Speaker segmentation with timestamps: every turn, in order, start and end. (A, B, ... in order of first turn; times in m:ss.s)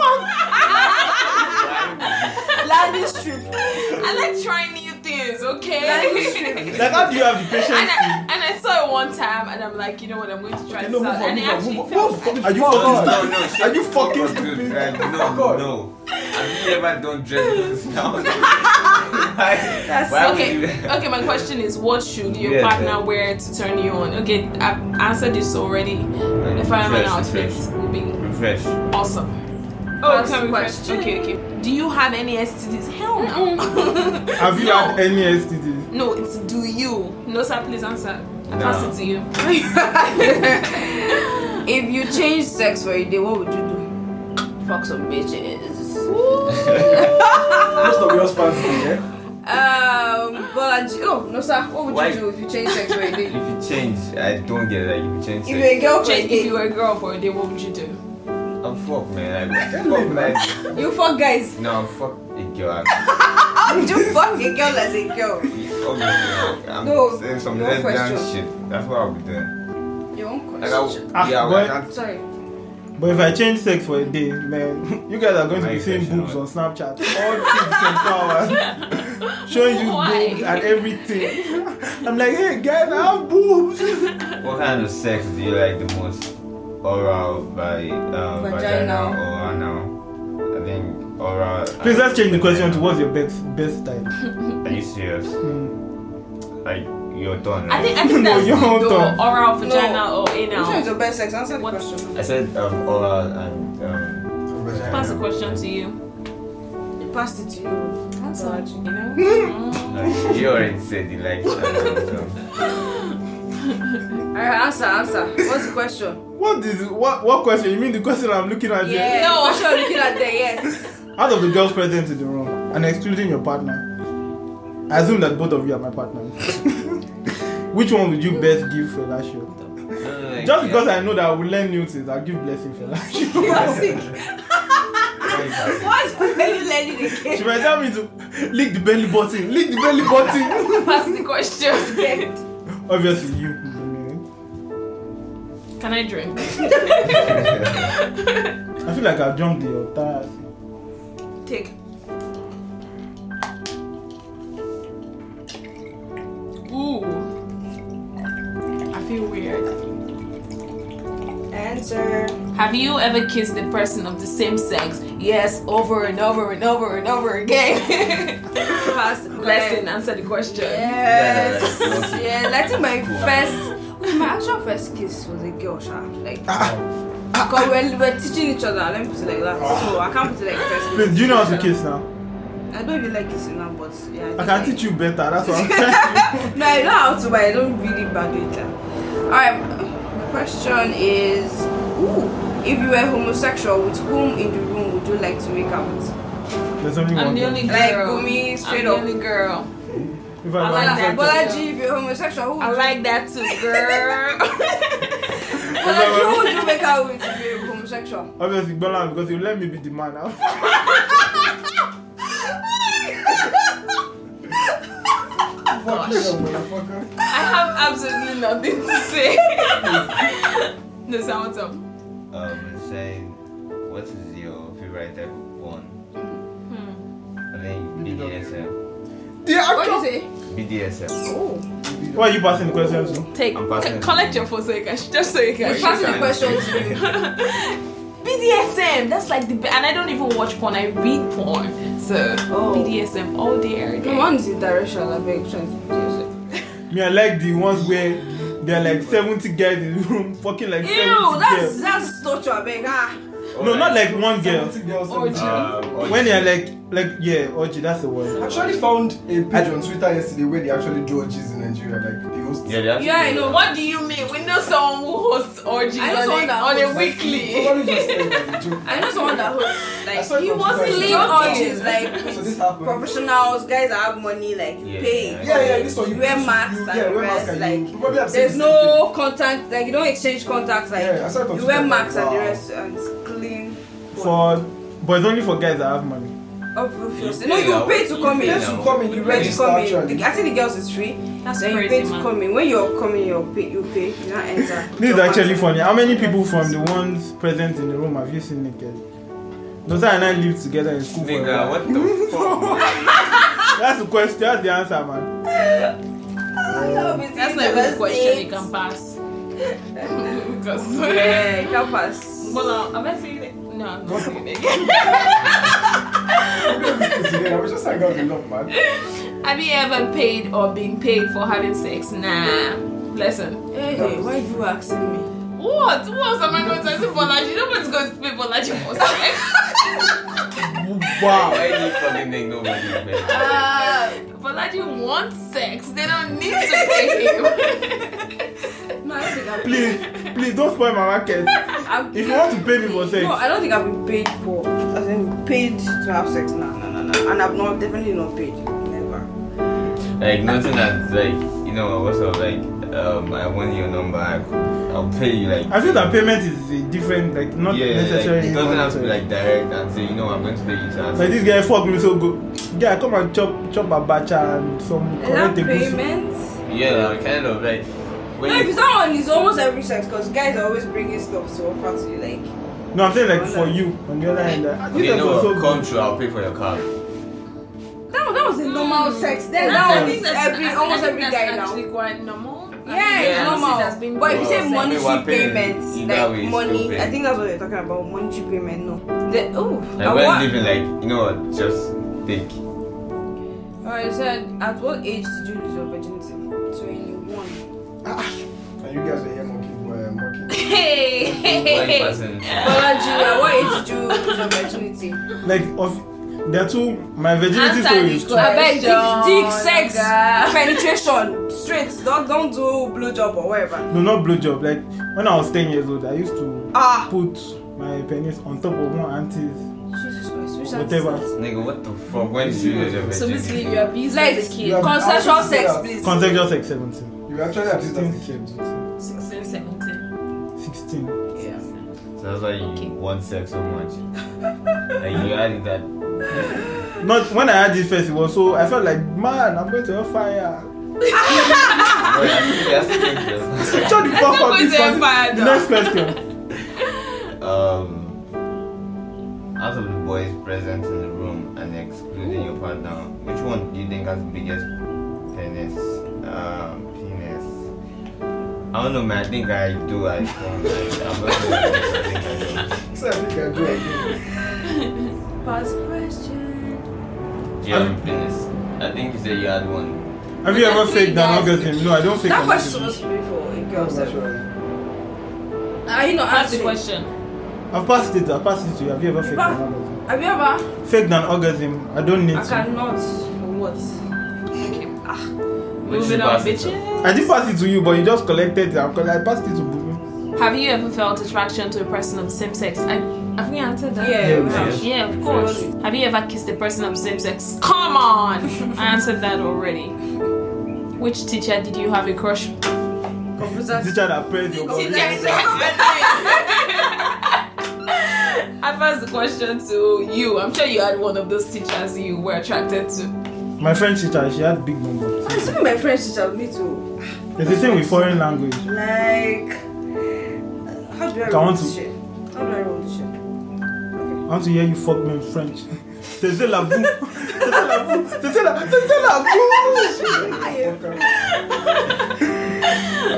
0:00.4-0:01.7 A
0:00.6-0:01.6 B
0:01.3-0:04.0 C
0:02.6-0:04.2 B
0:03.7-0:06.8 A
0:05.8-0:07.2 B
0:06.7-0:07.2 C
0:06.7-0:08.2 D
0:07.4-0:12.5 A
0:10.7-0:13.4 E
0:12.4-0:14.7 D
0:12.7-0:21.3 C
0:14.2-0:15.7 E
0:18.4-0:18.7 A
0:19.7-0:20.6 B
0:20.1-0:28.3 A
0:22.2-0:23.0 C
0:26.4-0:27.7 C
0:28.2-0:28.8 C
0:28.9-0:29.4 A
0:30.0-0:31.4 B
0:30.0-0:35.0 A
0:33.2-0:34.2 B
0:34.4-0:35.9 D
0:35.9-0:39.5 A
0:38.5-0:39.0 C
0:39.4-0:43.9 B
0:44.6-0:46.1 B
0:46.1-0:47.2 A
0:46.7-0:47.0 C
0:46.9-0:48.0 B
0:47.6-0:49.0 E
0:49.4-0:53.4 B
0:51.9-0:52.2 C
0:53.2-0:55.8 C
0:55.5-0:56.6 B
0:56.0-0:58.0 A
0:58.6-1:00.8 C
0:59.7-1:00.5 E
1:00.7-1:01.6 B
1:01.6-1:03.1 C
1:03.2-1:05.6 B
1:05.5-1:09.5 C
1:06.8-1:08.3 B
1:10.1-1:11.0 B
1:10.6-1:11.9 C
1:11.1-1:11.8 D
1:11.9-1:12.2 B
1:13.0-1:24.1 D
1:15.5-1:16.4 C
1:19.3-1:21.2 A
1:24.4-1:29.9 C
1:28.4-1:29.2 B
1:30.5-1:32.9 C
1:31.8-1:34.1 D
1:34.6-1:35.4 C
1:35.4-1:35.7 D
1:36.6-1:38.7 C
1:37.7-1:40.9 A
1:38.0-1:39.2 D
1:39.6-1:42.2 B
1:41.6-1:41.8 A
1:42.2-1:45.6 C
1:44.5-1:45.2 E
1:44.9-1:46.0 A
1:47.0-1:48.8 B
1:48.3-1:50.1 A
1:49.9-1:52.4 C
1:54.3-1:56.2 B
1:56.4-1:59.3 D
1:58.8-2:00.9 B
1:59.0-2:00.2 A
2:01.2-2:03.8 D
2:04.9-2:07.0 D
2:07.7-2:09.5 D
2:10.0-2:11.0 C
2:10.4-2:14.0 D
2:13.2-2:17.7 B
2:15.2-2:16.0 C
2:17.3-2:20.8 D
2:19.9-2:20.7 E
2:20.6-2:22.3 A
2:21.8-2:22.4 B
2:22.9-2:24.2 D
2:25.8-2:28.5 A
2:27.3-2:27.8 C
2:28.8-2:30.4 D
2:36.7-2:37.3 A
2:38.9-2:39.8 A
2:41.5-2:42.4 B
2:42.6-2:51.0 A
2:48.7-2:49.8 B
2:50.5-2:56.6 B
2:51.0-2:53.6 C
2:56.5-2:56.8 E
2:57.3-3:01.7 B
2:59.6-3:00.0 E
3:00.9-3:02.0 D
3:02.7-3:04.9 B
3:04.4-3:06.6 D
3:05.4-3:08.8 B
3:09.3-3:16.1 B
3:16.8-3:17.9 D
3:17.1-3:19.7 A
3:17.7-3:19.0 B
3:20.4-3:21.5 D
3:20.6-3:21.7 A
3:20.6-3:23.0 B
3:22.6-3:26.8 A
3:23.7-3:24.0 B
3:25.5-3:28.3 B
3:25.7-3:26.6 D
3:28.4-3:30.8 D
3:35.6-3:37.1 E
3:35.7-3:36.4 A
3:37.2-3:41.8 A
3:39.7-3:40.2 E
3:42.3-3:46.0 C
3:46.7-3:47.0 A
3:47.5-3:48.8 C
3:48.0-3:48.5 E
3:49.4-3:50.0 E
3:49.7-3:50.3 B
3:50.5-3:51.2 C
3:51.2-3:51.7 B
3:51.8-3:53.3 E
3:52.2-3:53.3 D
3:53.3-4:04.3 A
3:53.5-3:54.4 C
3:55.6-3:57.2 B
3:55.6-3:57.1 C
4:02.5-4:02.9 B
4:04.0-4:06.3 B
4:06.9-4:11.8 D
4:07.8-4:09.2 E
4:10.8-4:13.2 B
4:13.5-4:14.1 C
4:13.6-4:14.8 D
4:14.0-4:16.1 E
4:15.1-4:15.8 A
4:15.3-4:16.5 C
4:16.0-4:18.4 D
4:18.4-4:22.8 E
4:22.6-4:23.8 C
4:23.0-4:23.7 B
4:23.5-4:28.4 A
4:26.0-4:27.1 B
4:26.9-4:29.6 E
4:28.8-4:44.6 B
4:29.8-4:32.4 A
4:30.1-4:33.1 E
4:34.8-4:36.0 C
4:35.4-4:39.1 E
4:40.9-4:42.6 E
4:44.2-4:46.3 D
4:46.8-4:56.8 B
4:47.1-4:49.6 C
4:48.2-4:50.3 E
4:51.4-4:52.3 A
4:54.9-4:59.0 D
4:59.8-5:02.9 D
5:01.2-5:03.2 C
5:03.7-5:05.3 D
5:05.5-5:05.9 B
5:06.6-5:08.7 B
5:06.7-5:07.2 E
5:07.3-5:09.2 A
5:10.0-5:10.3 B
5:10.0-5:11.8 A
5:10.9-5:12.7 B
5:12.4-5:17.4 A
5:14.1-5:14.4 E
5:16.4-5:18.7 E
5:18.7-5:23.6 A
5:23.7-5:25.3 B
5:23.9-5:24.4 E
5:25.6-5:30.1 A
5:30.6-5:31.7 D
5:31.2-5:33.6 C
5:33.2-5:38.3 A
5:36.8-5:37.1 B
5:39.0-5:40.1 B
5:39.6-5:43.4 D
5:41.8-5:49.3 B
5:50.2-5:56.1 C
5:55.7-5:59.2 D
5:57.7-6:01.6 C
6:01.2-6:06.0 D
6:05.2-6:06.6 B
6:06.7-6:08.8 C
6:08.4-6:12.5 B
6:12.9-6:15.9 D
6:13.1-6:13.8 B
6:14.9-6:16.9 C
6:18.1-6:21.8 B
6:18.6-6:25.0 A
6:19.7-6:20.2 D
6:22.8-6:30.5 B
6:23.1-6:27.1 C
6:30.0-6:32.6 C
6:33.8-6:37.6 B
6:38.0-6:40.7 E
6:40.5-6:44.6 A
6:41.3-6:42.9 C
6:42.6-6:45.2 B
6:45.4-6:48.5 D
6:47.5-6:50.8 A
6:48.3-6:53.9 B
6:53.9-6:59.6 D
6:56.7-6:57.1 B
6:59.9-7:01.4 B
7:00.7-7:01.3 D
7:01.4-7:03.9 C
7:02.2-7:03.4 E
7:03.1-7:05.0 A
7:04.1-7:06.2 B
7:04.6-7:06.1 E
7:06.0-7:08.6 D
7:07.3-7:08.6 E
7:09.0-7:10.1 A
7:10.6-7:11.2 D
7:11.3-7:11.6 B
7:12.2-7:14.0 C
7:12.6-7:12.9 A
7:15.0-7:16.7 C
7:17.0-7:20.7 D
7:21.2-7:22.1 A
7:21.9-7:24.2 C
7:23.6-7:26.2 D
7:23.9-7:26.2 A
7:27.4-7:28.2 C
7:29.6-7:34.7 C
7:35.3-7:37.7 C
7:38.7-7:42.8 C
7:42.9-7:44.2 E
7:44.6-7:45.1 A
7:45.4-7:46.8 B
7:47.6-7:50.1 C
7:47.7-7:48.0 D
7:50.4-7:53.0 D
7:50.4-7:51.8 A
7:52.2-7:54.2 B
7:53.7-7:54.5 E
7:55.9-7:56.8 B
7:56.2-7:57.1 A
7:57.7-8:00.0 D
7:59.2-8:00.7 B
8:00.8-8:02.7 D
8:02.3-8:04.0 B
8:04.6-8:04.9 A
8:04.6-8:05.3 B
8:05.8-8:06.8 C
8:05.8-8:07.2 A
8:07.0-8:10.0 D
8:10.4-8:20.0 A
8:14.0-8:15.7 B
8:14.2-8:14.8 D
8:14.5-8:15.5 C
8:21.0-8:22.6 A
8:23.4-8:24.0 B
8:23.7-8:25.6 D
8:24.6-8:26.7 B
8:24.6-8:27.4 A
8:27.9-8:33.1 A
8:33.6-8:35.6 D
8:35.3-8:39.6 B
8:37.4-8:38.7 D
8:40.7-8:43.1 B
8:41.3-8:41.8 D
8:44.0-8:44.2 B
8:44.3-8:50.1 D
8:49.4-8:51.2 E
8:49.6-8:51.8 B
8:51.1-8:52.0 A